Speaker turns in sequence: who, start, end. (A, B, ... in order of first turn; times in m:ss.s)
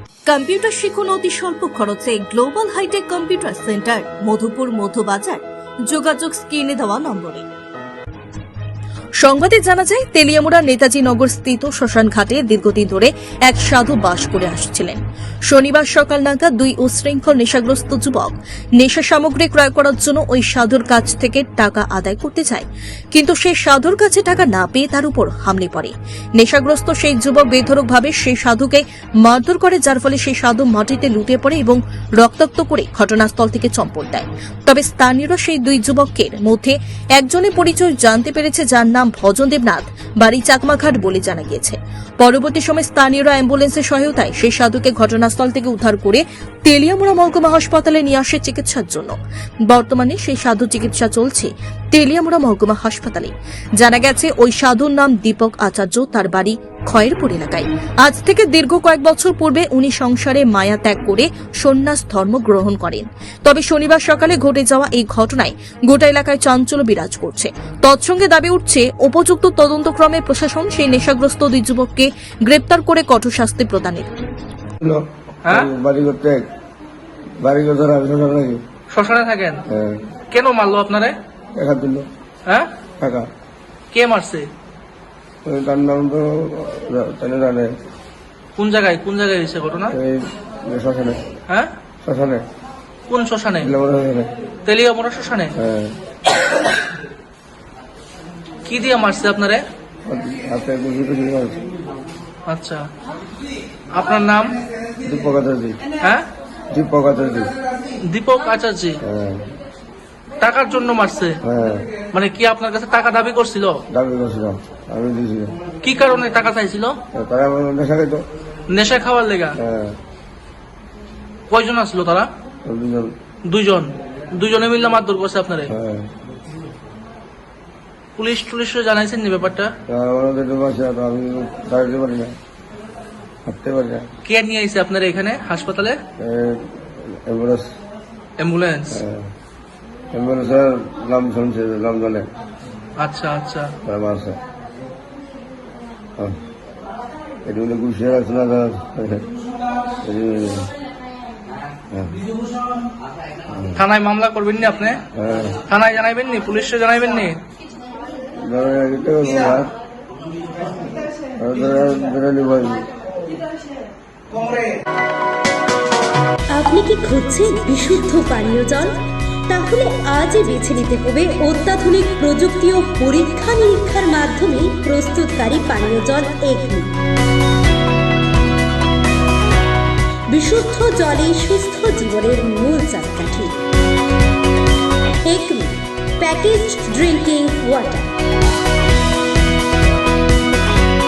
0:00.3-0:07.4 A
0:09.2-0:49.2 A
0:49.7-1:14.1 A
1:14.8-1:16.4 B
1:15.5-1:15.7 C
1:17.4-1:18.6 B
1:18.9-1:19.6 C
1:19.7-1:20.0 B
1:20.3-1:21.2 C
1:21.6-1:22.1 B
1:23.0-1:23.3 B
1:23.9-1:24.5 C
1:25.4-1:27.7 B
1:28.6-1:30.0 C
1:29.9-1:31.2 B
1:32.0-1:32.4 B
1:33.1-1:33.7 C
1:33.6-1:34.3 B
1:34.7-1:35.5 C
1:35.6-1:36.0 B
1:38.7-1:39.6 C
1:40.1-1:41.6 B
1:42.5-1:42.9 C
1:44.0-1:44.5 C
1:45.0-1:45.8 B
1:46.7-1:47.5 B
1:48.1-1:49.0 C
1:49.0-1:49.5 B
1:50.4-1:51.4 C
1:51.4-1:51.9 B
1:52.1-1:53.8 C
1:53.9-1:55.6 B
1:55.8-1:57.0 C
1:57.1-1:58.2 B
1:58.7-1:59.6 C
1:59.6-2:00.0 B
2:01.5-2:02.3 C
2:02.6-2:03.1 B
2:03.5-2:05.7 C
2:05.7-2:06.1 B
2:08.2-2:09.7 C
2:09.9-2:12.4 B
2:13.5-2:14.1 B
2:14.2-2:16.0 C
2:16.2-2:17.7 B
2:18.4-2:19.0 C
2:18.9-2:19.3 B
2:20.1-2:22.3 B
2:23.0-2:23.7 C
2:23.8-2:24.4 B
2:27.4-2:29.3 B
2:30.0-2:30.7 B
2:31.9-2:32.2 B
2:33.5-2:33.8 B
2:33.8-2:35.0 C
2:35.2-2:35.6 B
2:35.7-2:37.4 C
2:38.4-2:39.7 B
2:41.4-2:42.9 B
2:46.5-2:49.0 D
2:49.5-2:56.9 D
3:00.3-3:03.6 D
3:05.2-3:08.1 D